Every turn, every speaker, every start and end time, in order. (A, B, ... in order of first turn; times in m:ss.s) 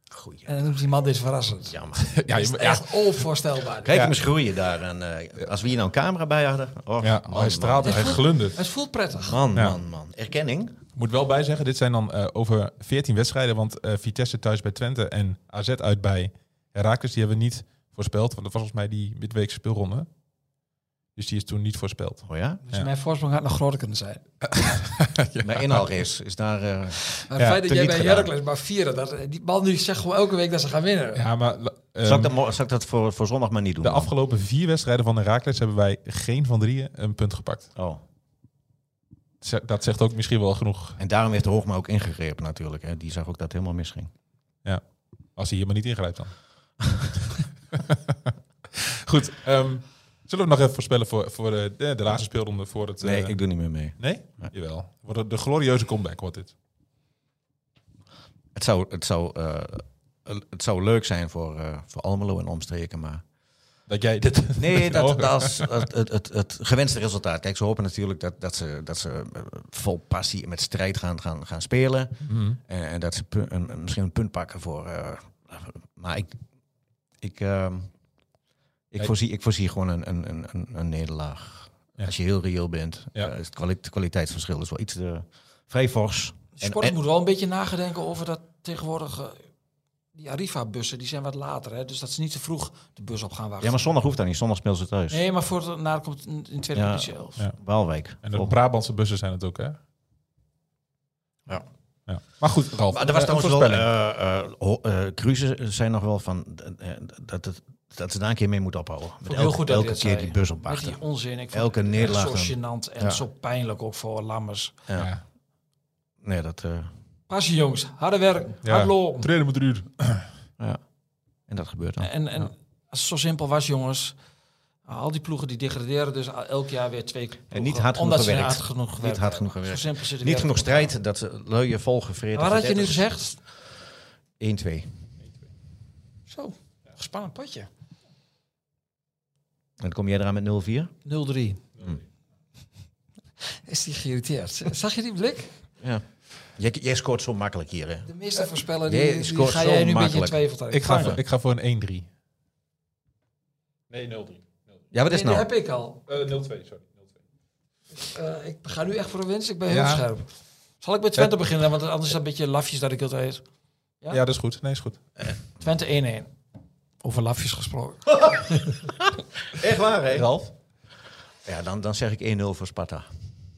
0:00.1-0:00.9 A
0:00.4-0:01.8 B
0:01.7-0:02.1 A
0:02.0-0:03.0 C
0:02.3-0:04.0 B
0:03.8-0:08.2 A
0:03.9-0:04.1 C
0:07.0-0:08.6 C
0:07.8-0:09.4 B
0:09.2-0:10.8 A
0:11.0-0:20.1 C
0:21.2-0:22.9 C
0:22.2-0:22.6 A
0:22.6-0:24.2 B
0:24.4-0:25.9 C
0:25.4-0:28.3 A
0:27.1-0:31.2 B
0:31.1-0:32.3 C
0:32.0-0:34.1 A
0:33.8-0:37.7 C
0:37.8-0:38.0 A
0:39.4-0:41.0 C
0:41.0-0:44.1 A
0:45.4-0:46.3 C
0:47.7-0:53.4 C
0:53.0-0:53.9 A
0:53.9-0:56.5 C
0:58.5-1:03.2 A
1:03.9-1:05.8 C
1:04.5-1:16.4 A
1:12.2-1:12.6 C
1:17.2-1:17.9 A
1:18.9-1:27.0 A
1:26.6-1:29.4 B
1:30.1-1:33.8 B
1:33.6-1:35.2 A
1:35.1-1:37.4 B
1:36.7-1:38.5 A
1:38.2-1:39.8 C
1:42.1-1:43.9 C
1:42.9-1:51.0 A
1:49.2-1:54.7 B
1:51.5-1:53.2 A
1:54.9-1:55.2 C
1:56.2-1:56.9 A
1:57.3-1:59.3 B
1:58.6-2:00.3 C
2:01.5-2:02.1 A
2:02.0-2:04.1 B
2:04.8-2:10.9 B
2:07.5-2:13.1 A
2:12.3-2:13.4 B
2:14.4-2:14.9 A
2:16.3-2:17.7 B
2:19.8-2:20.9 A
2:21.0-2:21.6 B
2:23.5-2:25.5 B
2:26.6-2:28.1 A
2:28.0-2:31.2 B
2:28.8-2:31.2 A
2:30.7-2:32.1 C
2:33.9-2:34.8 C
2:34.9-2:35.5 A
2:35.1-2:36.0 B
2:36.1-2:37.0 C
2:38.0-2:40.3 B
2:39.7-2:40.0 C
2:40.8-2:43.4 B
2:44.1-2:45.0 C
2:45.6-2:46.3 B
2:47.0-2:48.9 B
2:49.0-2:50.3 A
2:50.1-2:50.5 C
2:51.4-2:53.1 A